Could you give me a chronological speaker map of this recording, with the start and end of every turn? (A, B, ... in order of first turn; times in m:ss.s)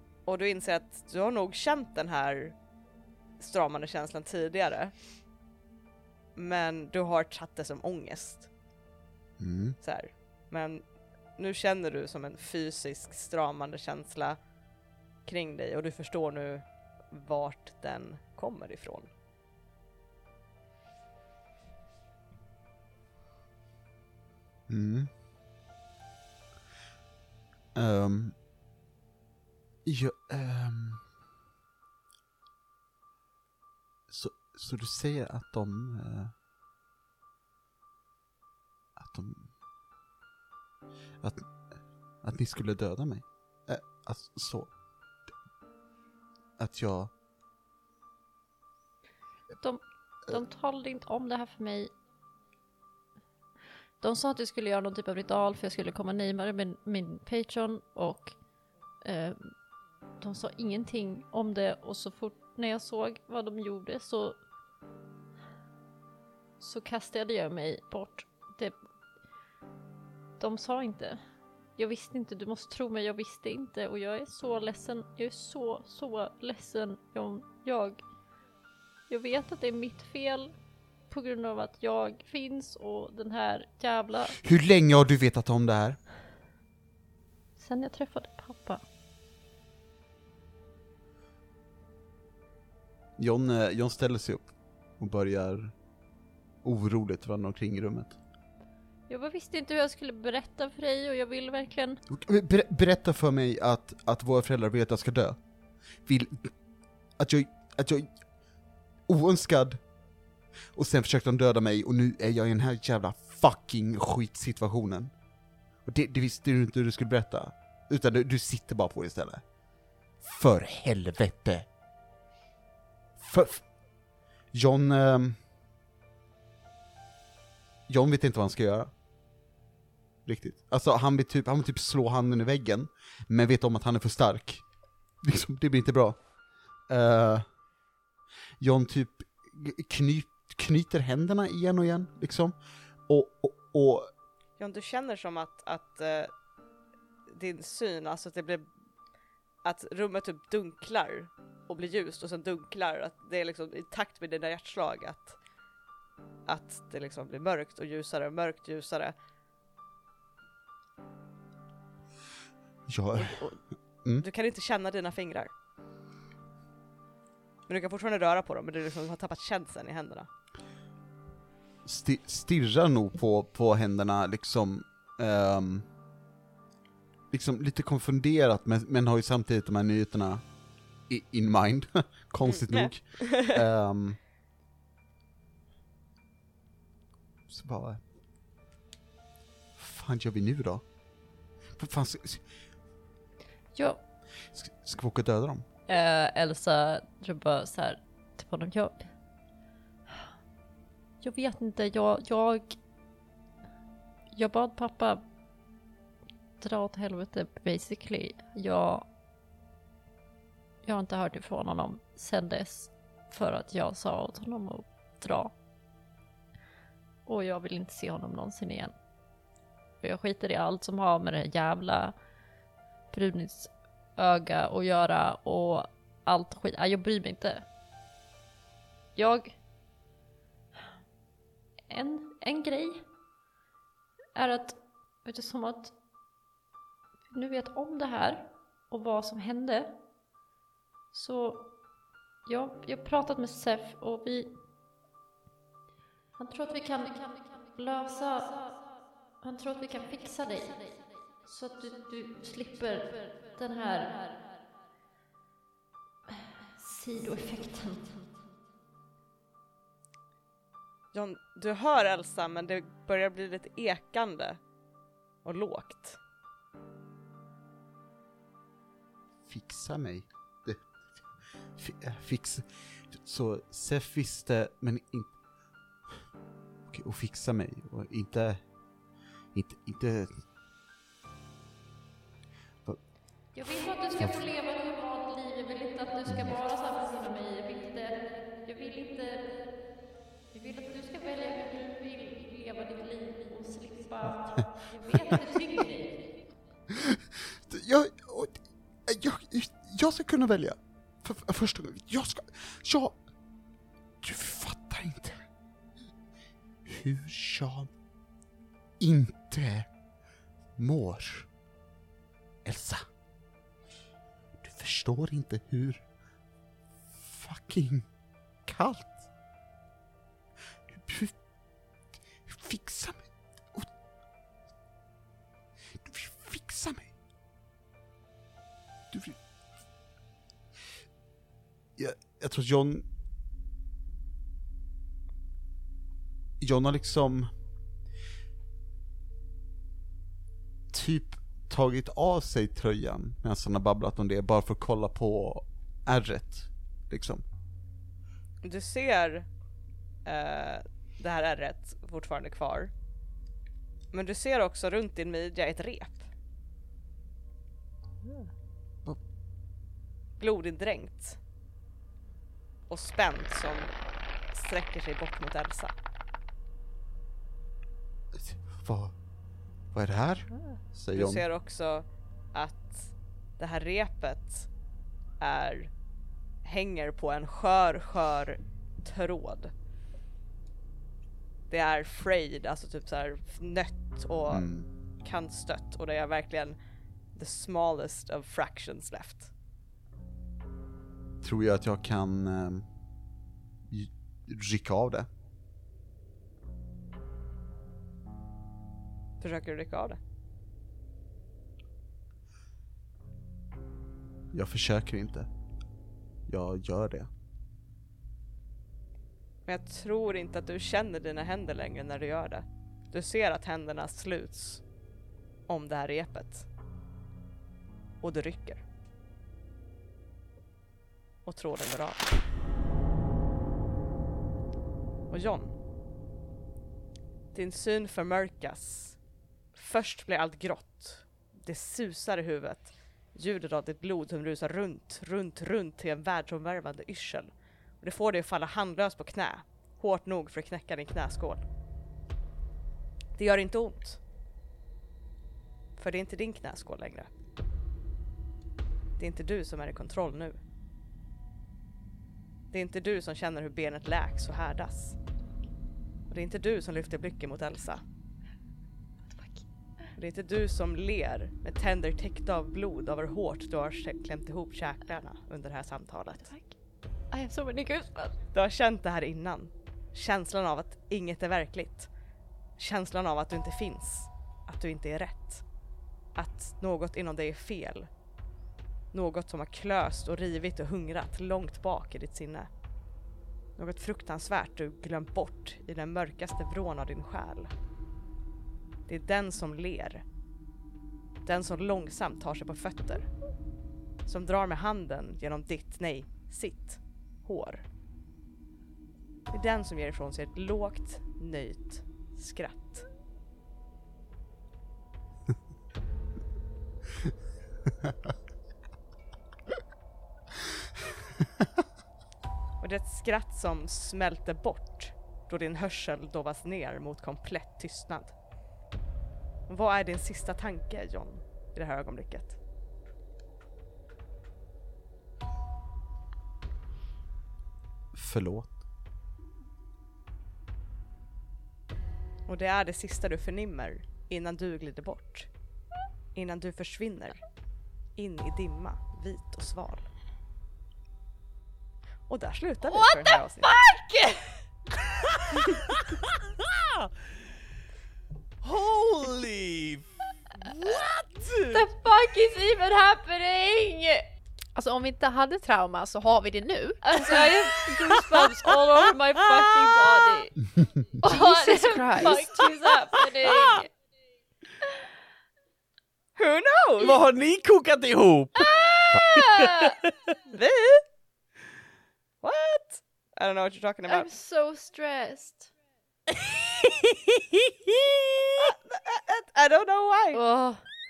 0:00.2-0:02.5 A
0:03.4-0:04.9 A
0:06.4-0:08.5 A
0:09.4-0:09.8 B
0:09.8-0:10.8 A
0:11.4-0:14.4 A
0:15.2-0:19.1 A
0:24.7-0:25.1 B
0:27.7-0:28.3 B
0:29.8-0:31.0 B
0:34.1-0:36.3 B
0:39.0-0:39.5 B
0:41.2-0:41.5 B
0:42.2-0:44.7 B
0:46.6-0:47.1 B
0:49.6-0:51.9 C
0:54.0-0:58.3 C
0:59.0-0:59.5 C
1:00.2-1:04.4 C
1:06.6-1:08.8 C
1:10.4-1:11.2 C
1:11.8-1:18.0 C
1:19.1-1:20.5 C
1:21.1-1:24.4 C
1:24.4-1:26.0 B
1:27.6-1:28.8 C
1:33.2-1:35.7 B
1:36.6-1:38.2 B
1:39.1-1:42.0 C
1:42.1-1:45.4 B
1:46.0-1:46.5 B
1:47.2-1:48.1 B
1:49.1-1:49.8 B
1:50.7-1:55.1 B
1:55.8-1:59.4 B
2:00.2-2:01.7 B
2:03.2-2:03.7 B
2:04.5-2:05.4 B
2:07.9-2:08.9 B
2:10.2-2:14.6 B
2:15.2-2:16.2 B
2:16.9-2:17.4 B
2:18.6-2:22.6 B
2:23.1-2:24.1 B
2:24.6-2:26.3 A
2:27.3-2:28.7 A
2:29.6-2:35.4 A
2:36.5-2:39.1 A
2:42.9-2:43.5 B
2:43.2-2:43.6 A
2:44.2-2:45.5 A
2:47.7-2:50.3 A
2:51.8-2:55.9 B
2:57.3-3:00.4 B
3:01.1-3:04.2 B
3:02.4-3:03.6 A
3:07.5-3:08.0 B
3:09.8-3:10.8 B
3:11.8-3:12.4 B
3:13.7-3:14.0 C
3:14.5-3:15.6 B
3:15.9-3:19.1 C
3:21.2-3:22.8 C
3:24.3-3:25.2 C
3:26.6-3:29.0 C
3:30.8-3:35.5 C
3:37.2-3:38.9 C
3:40.0-3:42.1 C
3:43.1-3:47.6 C
3:49.2-3:49.6 C
3:51.9-3:53.0 C
3:54.3-3:55.9 C
3:57.3-4:00.0 C
4:01.1-4:01.7 C
4:02.4-4:04.5 C
4:06.4-4:14.4 C
4:16.3-4:18.2 C
4:21.1-4:24.6 A
4:25.4-4:26.2 A
4:29.4-4:31.0 B
4:31.8-4:35.4 B
4:36.9-4:38.6 B
4:39.5-4:40.4 B
4:43.5-4:49.7 C
4:46.2-4:46.5 B
4:50.5-4:56.3 C
4:56.9-5:03.2 B
5:04.2-5:05.4 B
5:06.8-5:07.9 B
5:09.0-5:09.9 B
5:10.8-5:11.5 B
5:12.6-5:13.1 B
5:14.6-5:16.0 B
5:17.1-5:18.1 B
5:18.6-5:19.2 B
5:20.9-5:21.4 B
5:22.4-5:23.9 B
5:26.0-5:27.1 B
5:29.1-5:29.4 B
5:32.0-5:33.0 B
5:36.6-5:37.5 B
5:40.9-5:47.4 B
5:48.6-5:49.5 A
5:50.2-5:52.9 A
5:54.1-5:56.3 A
6:00.4-6:01.4 A
6:02.9-6:03.9 A
6:04.5-6:05.9 A
6:08.3-6:09.1 B
6:09.9-6:11.4 B
6:11.1-6:14.7 A
6:15.4-6:15.9 A
6:16.6-6:19.7 A
6:21.7-6:26.8 A
6:24.5-6:24.9 B
6:27.3-6:29.5 A
6:31.4-6:32.9 B
6:33.9-6:35.3 B
6:39.4-6:40.2 A
6:44.5-6:45.5 B
6:46.5-6:47.3 B
6:49.7-6:54.8 A
6:55.7-6:56.7 A
6:58.2-6:58.8 A
7:01.4-7:02.3 A
7:05.3-7:05.7 A
7:07.5-7:09.2 A
7:09.7-7:21.6 A
7:23.4-7:24.2 A
7:26.0-7:27.3 A
7:29.2-7:30.6 A
7:32.7-7:35.2 A
7:36.3-7:38.0 A
7:39.3-7:39.6 C
7:40.1-7:46.5 A
7:46.4-7:46.7 C
7:47.3-7:48.3 C
7:48.5-7:52.1 A
7:52.8-7:55.6 A
7:56.3-7:58.1 A
7:59.1-8:02.7 A
8:03.8-8:07.7 A
8:09.1-8:10.2 A
8:11.4-8:13.3 A
8:14.2-8:17.8 A
8:19.5-8:23.1 A
8:27.9-8:28.1 B
8:32.8-8:38.3 A
8:39.7-8:42.6 A
8:48.1-8:48.7 B
8:52.5-8:55.5 A
8:56.3-8:57.4 A
8:58.2-9:00.1 A
9:02.3-9:03.8 A
9:02.8-9:04.6 C
9:05.7-9:06.0 D
9:06.6-9:06.9 D
9:08.6-9:10.0 D
9:10.6-9:11.8 D
9:10.6-9:11.0 C
9:11.6-9:14.2 C
9:14.7-9:17.5 E
9:17.0-9:23.9 C
9:19.8-9:20.3 D
9:21.2-9:22.5 E
9:22.4-9:23.8 D
9:26.4-9:27.2 A
9:27.0-9:30.3 D
9:28.5-9:30.0 C
9:30.5-9:31.0 A
9:32.4-9:34.3 A
9:34.1-9:35.7 C
9:36.8-9:37.1 D
9:38.6-9:40.4 A
9:40.3-9:40.8 C